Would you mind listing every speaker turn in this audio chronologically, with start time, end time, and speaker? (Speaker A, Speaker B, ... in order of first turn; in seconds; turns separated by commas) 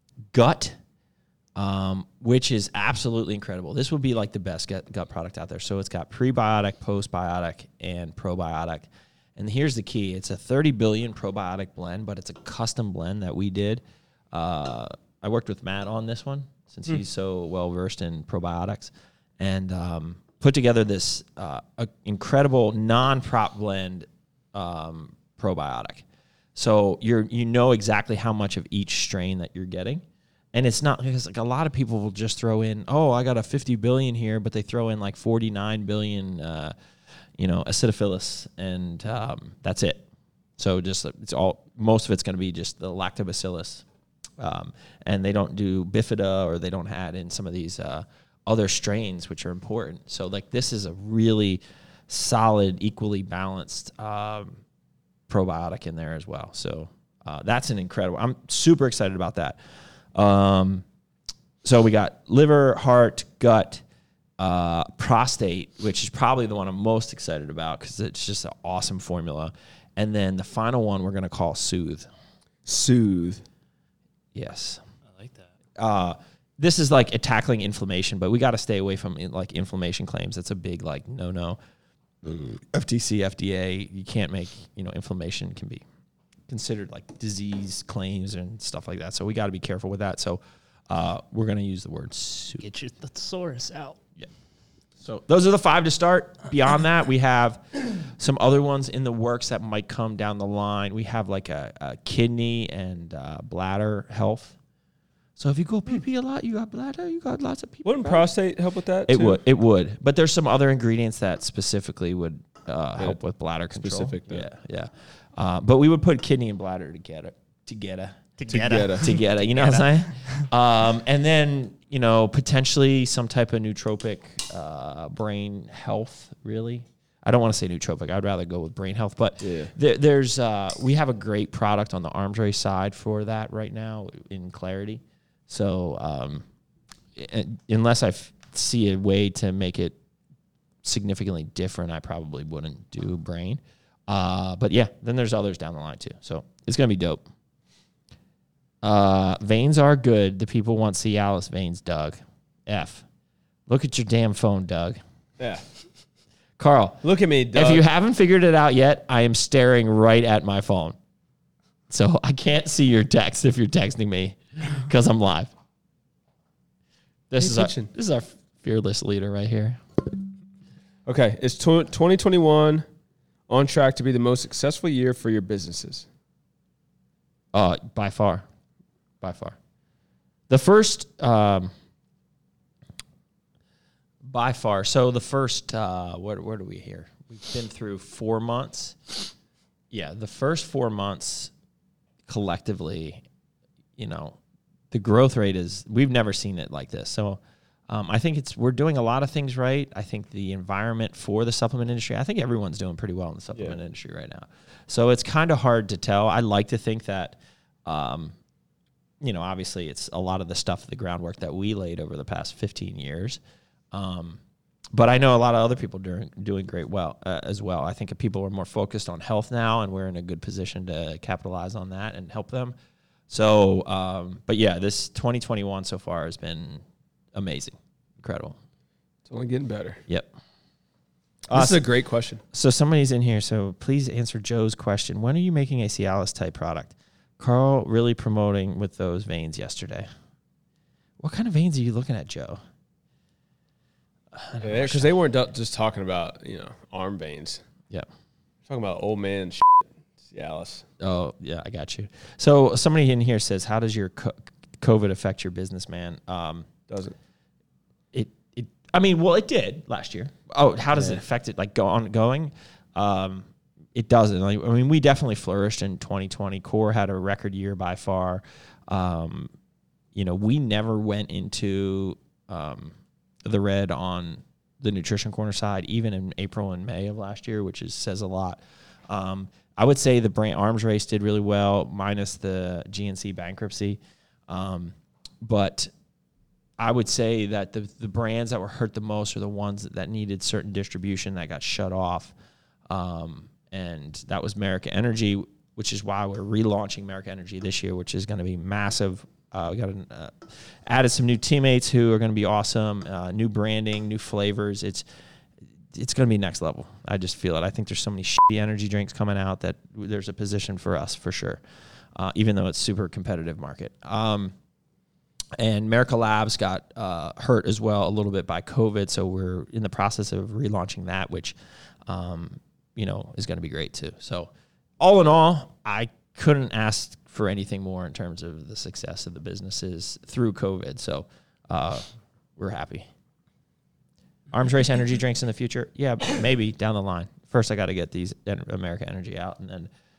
Speaker A: 0.3-0.8, Speaker A: 1.6-36.7, Speaker A: 37.4-40.0, Speaker A: 40.6-43.8, Speaker A: 44.4-54.6, Speaker A: 55.3-59.6, Speaker A: 60.1-60.8, Speaker A: 61.6-63.8, Speaker A: 64.4-72.1, Speaker B: 72.7-73.4, Speaker A: 74.3-74.8, Speaker C: 75.1-75.5, Speaker A: 75.8-81.6, Speaker A: 82.2-85.8, Speaker A: 86.5-92.7, Speaker C: 92.6-94.0, Speaker A: 95.0-104.5, Speaker A: 105.4-108.3, Speaker B: 107.8-109.4, Speaker A: 109.1-118.3, Speaker B: 113.7-114.5, Speaker C: 118.4-120.5, Speaker B: 118.5-119.1, Speaker A: 118.9-136.4, Speaker B: 129.4-129.7, Speaker A: 137.1-139.9, Speaker A: 140.8-147.2, Speaker A: 148.8-153.0, Speaker A: 153.7-155.0, Speaker B: 155.4-155.6, Speaker A: 156.6-160.9, Speaker B: 157.0-157.8, Speaker A: 161.9-165.5, Speaker A: 167.3-169.8, Speaker B: 167.4-167.9, Speaker B: 171.1-172.8, Speaker B: 173.5-176.1, Speaker A: 177.5-178.4, Speaker A: 179.2-179.6, Speaker A: 180.5-181.7, Speaker A: 184.2-189.3, Speaker A: 189.9-191.5, Speaker A: 192.3-193.2, Speaker A: 194.0-194.4, Speaker A: 194.9-208.3, Speaker A: 209.2-213.4, Speaker A: 213.9-214.4, Speaker A: 214.9-222.7, Speaker A: 223.3-228.6, Speaker B: 229.2-230.0, Speaker A: 231.5-231.9, Speaker B: 231.5-232.4, Speaker A: 232.5-240.1, Speaker A: 241.2-242.6, Speaker A: 244.3-245.1, Speaker B: 244.6-247.6, Speaker B: 248.7-250.8, Speaker A: 251.0-256.7, Speaker B: 256.9-257.1, Speaker A: 258.1-269.5, Speaker B: 260.9-261.2, Speaker A: 270.1-285.9, Speaker A: 286.8-292.3, Speaker A: 292.9-305.0, Speaker A: 305.9-311.6, Speaker A: 312.1-314.5, Speaker A: 315.6-321.5, Speaker A: 322.1-332.0, Speaker A: 332.6-333.1, Speaker A: 334.5-339.9